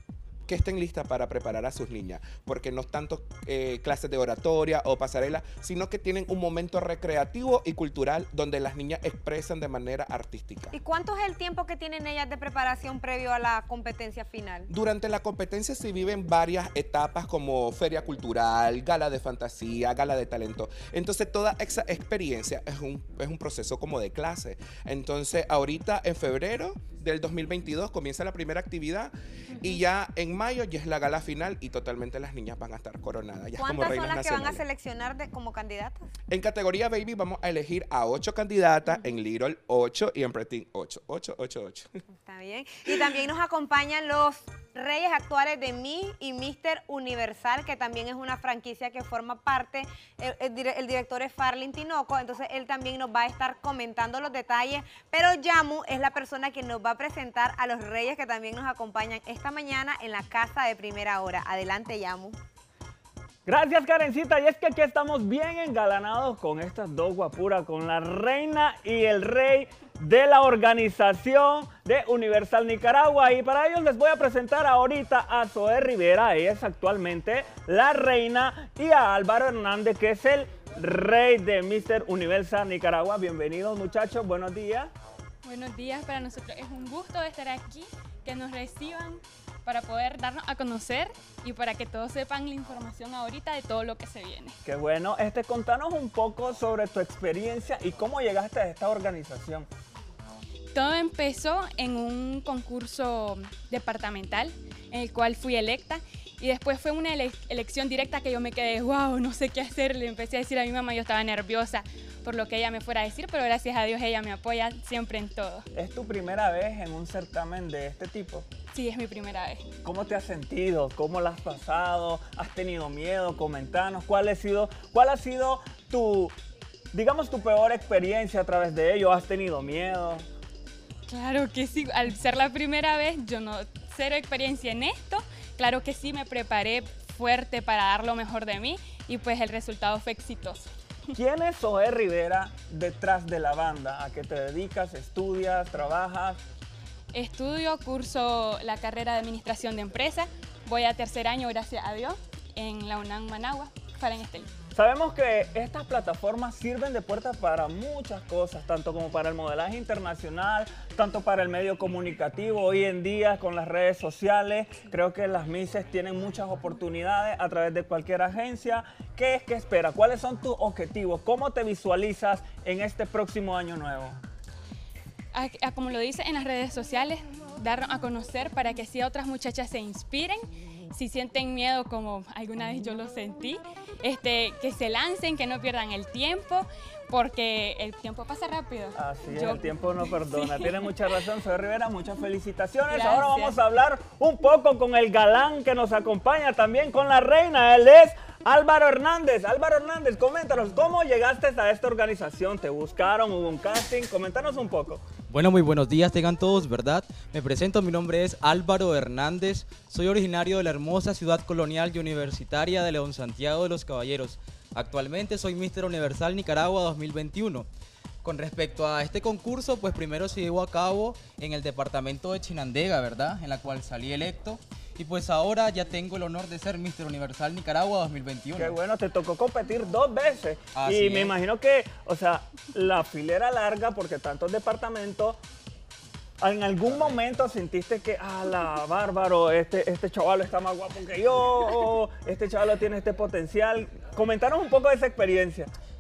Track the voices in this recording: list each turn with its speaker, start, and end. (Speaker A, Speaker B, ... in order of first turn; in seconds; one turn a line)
Speaker A: 0.5-10.8
Speaker B: 10.7-14.7
Speaker A: 14.7-34.6
Speaker B: 29.5-29.8
Speaker B: 33.6-36.1
Speaker A: 36.3-41.9
Speaker B: 42.2-62.4
Speaker C: 63.5-84.9
Speaker D: 85.4-94.6
Speaker C: 94.7-99.7
Speaker D: 100.7-115.7
Speaker C: 115.7-118.5
Speaker D: 118.7-119.7
Speaker C: 119.8-126.4
Speaker C: 126.9-130.3
Speaker D: 131.1-140.7
Speaker C: 141.2-146.4
Speaker D: 147.1-154.5
Speaker C: 154.7-174.2
Speaker D: 175.3-190.9
Speaker C: 188.9-205.0
Speaker D: 192.9-193.6
Speaker E: 205.3-217.7
Speaker E: 218.2-228.8
Speaker C: 228.6-235.4
Speaker E: 230.7-231.4
Speaker C: 236.4-245.7
Speaker E: 236.8-237.3